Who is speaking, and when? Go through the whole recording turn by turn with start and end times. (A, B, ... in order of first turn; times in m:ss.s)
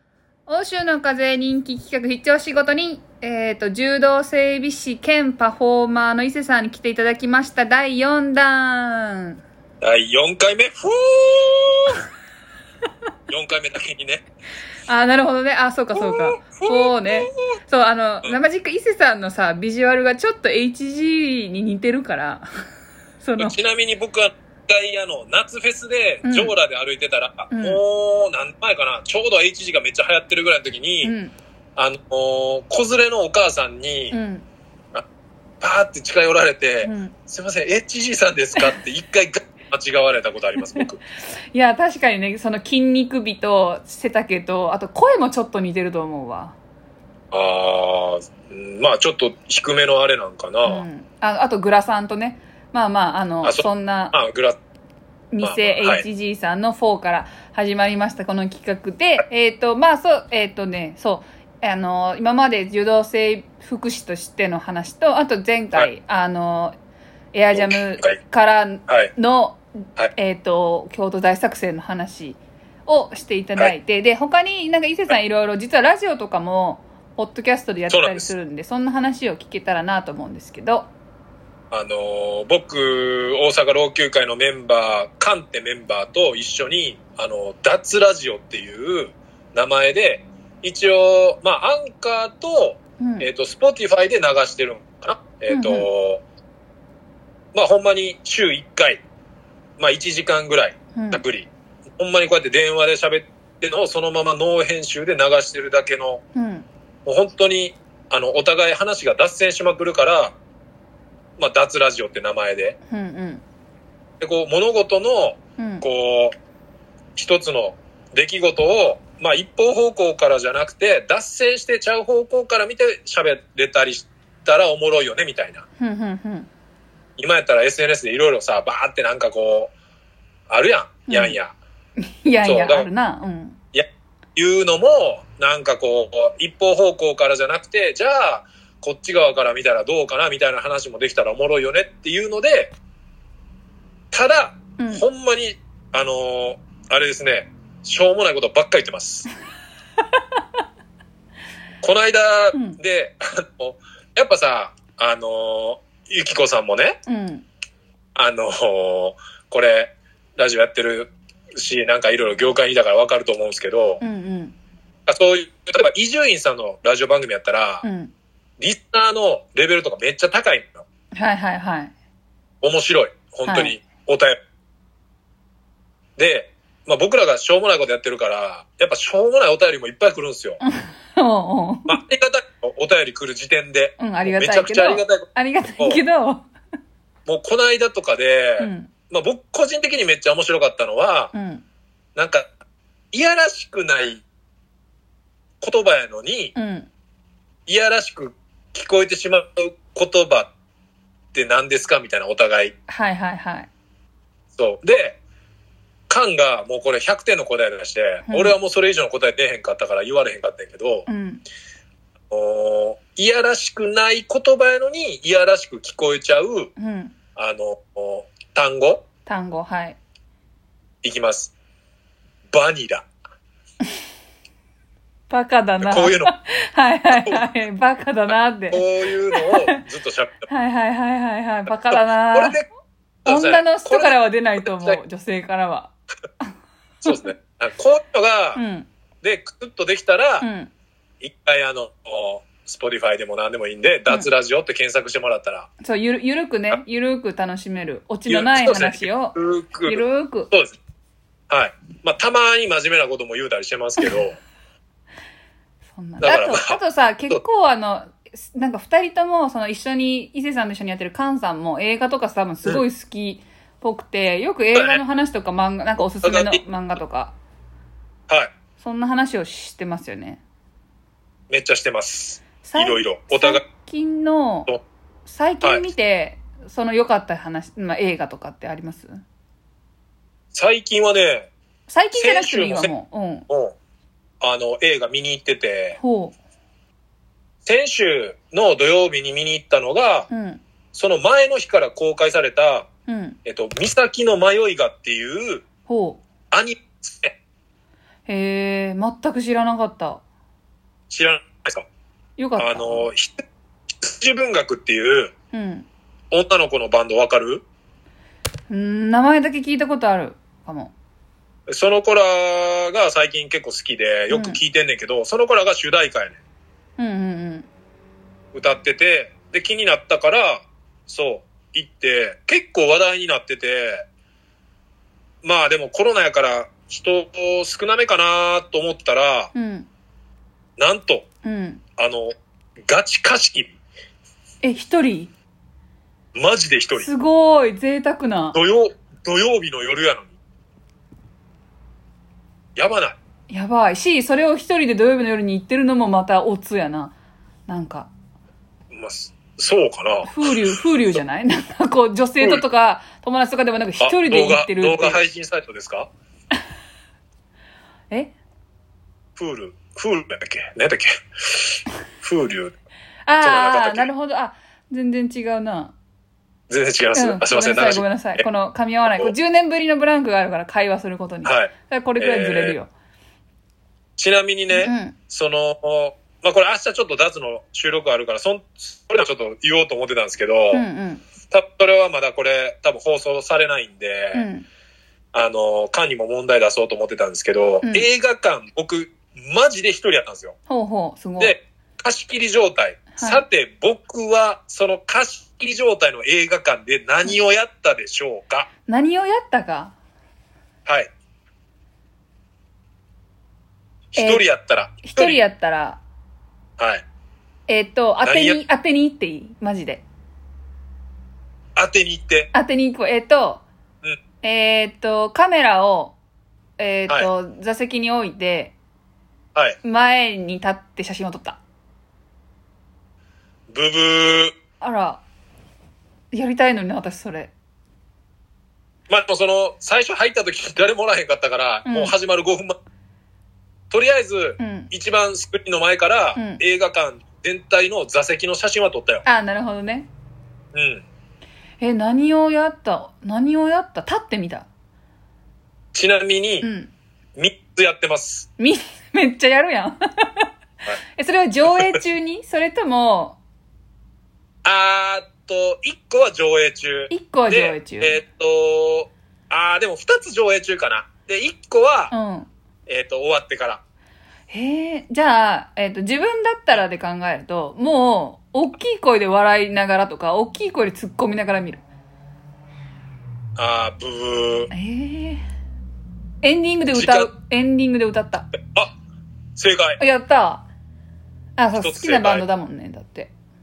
0:00.5-0:09.4 A
0:09.8-0:12.1 B
0:13.3-0:14.3 B
0:14.9-0:22.5 A
0:15.9-0:17.6 B
0:23.2-0:23.6 A
0:23.4-0:31.1 B
0:26.2-0:26.5 A
0:27.5-0:27.8 A
0:31.0-0:31.3 A
0:31.8-0:34.2 B
0:34.1-0:34.4 A
0:35.6-0:41.0 B
0:36.8-0:37.1 A
0:41.5-0:46.6 A
0:47.3-0:50.8 B
0:50.6-0:54.1 A
0:53.4-0:54.6 B
0:55.3-1:06.8 A
0:55.4-0:56.0 B
1:07.3-1:20.9 A
1:07.5-1:08.2 B
1:17.9-1:18.3 B
1:21.7-1:36.2 B
1:33.0-1:33.3 A
1:35.5-1:35.9 A
1:37.5-1:39.0 B
1:39.8-1:46.2 B
1:40.9-1:41.2 A
1:46.3-1:46.6 A
1:47.0-1:50.3 B
1:51.4-1:52.8 B
1:52.9-1:53.4 A
1:54.2-1:56.3 B
1:55.6-1:55.8 A
1:57.2-2:05.6 B
2:05.8-2:06.5 A
2:07.2-2:09.7 B
2:10.5-2:11.5 B
2:11.1-2:11.4 A
2:12.1-2:13.6 A
2:12.4-2:12.9 B
2:13.7-2:22.7 B
2:24.1-2:29.3 B
2:24.8-2:25.0 A
2:31.8-2:37.0 B
2:37.1-2:37.4 A
2:38.1-2:44.0 B
2:44.0-2:44.5 A
2:45.1-2:47.8 B
2:47.8-2:48.1 A
2:48.6-2:50.8 B
2:51.1-2:51.9 A
2:52.6-2:54.4 B
2:53.4-2:53.7 A
2:56.2-3:00.6 B
3:00.6-3:02.0 A
3:01.9-3:06.0 B
3:04.0-3:06.5 A
3:07.2-3:11.3 B
3:08.6-3:08.9 A
3:11.3-3:11.6 A
3:12.2-3:12.5 B
3:13.1-3:14.2 B
3:15.6-3:16.5 B
3:16.5-3:16.9 A
3:17.7-3:20.5 B
3:21.3-3:22.7 B
3:22.9-3:23.7 A
3:24.6-3:25.2 B
3:26.1-3:31.1 B
3:28.3-3:28.5 A
3:31.1-3:31.4 A
3:32.3-3:36.7 B
3:36.8-3:37.1 A
3:37.4-3:39.0 B
3:39.3-3:40.0 A
3:41.0-3:41.5 B
3:42.5-3:43.1 B
3:45.3-3:48.8 A
3:45.8-3:46.3 B
3:47.1-3:47.4 B
3:48.7-3:50.5 B
3:49.3-3:49.8 A
3:50.5-3:52.6 A
3:51.9-3:52.6 B
3:53.2-3:55.0 B
3:53.2-3:56.4 A
3:57.0-3:58.6 B
3:58.5-3:58.9 A
3:59.2-4:00.5 B
4:00.4-4:00.7 A
4:01.2-4:05.7 B
4:05.8-4:10.5 A
4:08.2-4:10.8 B
4:11.5-4:14.4 B
4:15.9-4:27.4 A
4:16.2-4:17.4 B
4:24.7-4:25.0 B
4:26.2-4:26.6 B
4:28.8-4:30.4 A
4:31.5-4:33.6 B
4:32.6-4:34.7 A
4:35.3-4:39.2 A
4:40.5-4:41.5 B
4:41.9-4:43.4 A
4:42.1-4:42.9 B
4:43.5-4:43.7 B
4:44.4-4:46.0 B
4:46.0-4:46.3 A
4:47.6-4:50.3 B
4:50.3-4:50.6 A
4:50.9-4:52.9 B
4:53.1-4:53.4 A
4:53.4-4:55.6 B
4:55.9-4:56.2 A
4:56.5-4:57.4 B
4:58.3-5:00.2 A
5:01.1-5:01.8 B
5:02.4-5:03.1 A
5:02.6-5:03.4 B
5:04.0-5:05.3 B
5:05.5-5:05.9 A
5:06.3-5:07.6 B
5:08.7-5:10.9 A
5:11.7-5:16.4 B
5:14.3-5:14.6 A
5:17.0-5:17.7 A
5:18.5-5:24.0 B
5:25.4-5:29.5 B
5:29.5-5:29.9 A
5:30.8-5:31.3 B
5:31.4-5:31.8 A
5:32.0-5:32.3 B
5:32.9-5:33.8 B
5:34.6-5:35.3 A
5:36.3-5:37.1 B
5:37.0-5:38.6 A
5:38.5-5:40.3 B
5:42.8-5:43.2 B
5:43.5-5:47.1 A
5:47.7-5:48.1 A
5:48.9-5:50.6 B
5:50.2-5:55.2 A
5:54.0-5:56.1 B
5:59.4-6:02.8 B
6:03.3-6:05.9 A
6:03.4-6:04.1 B
6:06.7-6:08.4 B
6:07.1-6:12.9 A
6:09.1-6:09.3 B
6:11.4-6:12.8 B
6:14.2-6:20.8 B
6:14.7-6:15.2 A
6:20.7-6:21.2 A
6:21.5-6:24.5 B
6:24.3-6:24.6 A
6:25.3-6:30.6 B
6:30.7-6:31.6 A
6:31.4-6:38.7 B
6:33.2-6:33.4 A
6:38.9-6:39.9 A
6:44.1-6:45.4 B
6:44.2-6:44.5 A
6:45.0-6:46.0 A
6:46.8-6:47.0 B
6:47.7-6:50.0 A
6:48.2-6:48.6 B
6:51.8-6:52.5 B
6:52.5-6:53.6 A
6:54.4-6:56.2 A
6:56.8-6:58.7 A
6:59.8-7:01.6 A
7:03.7-7:04.5 B
7:04.8-7:05.2 A
7:06.3-7:07.5 A
7:09.1-7:12.8 B
7:11.8-7:12.1 A
7:13.9-7:19.2 B
7:14.6-7:14.9 A
7:16.3-7:16.6 A
7:19.2-7:20.1 A
7:20.7-7:21.0 B
7:21.8-7:24.7 A
7:25.9-7:26.7 B
7:26.6-7:26.9 A
7:27.4-7:28.5 B
7:28.6-7:30.5 A
7:31.2-7:33.4 A
7:34.6-7:42.1 B
7:37.1-7:38.2 A
7:42.1-7:42.5 A
7:42.9-7:43.8 B
7:44.5-7:51.8 A
7:53.6-7:54.7 B
7:54.7-7:55.4 A
7:56.4-7:58.5 A
7:56.9-7:57.3 B
7:58.6-7:58.9 B
7:59.6-8:00.0 B
8:00.0-8:00.6 A
8:01.6-8:03.3 A
8:01.8-8:02.4 B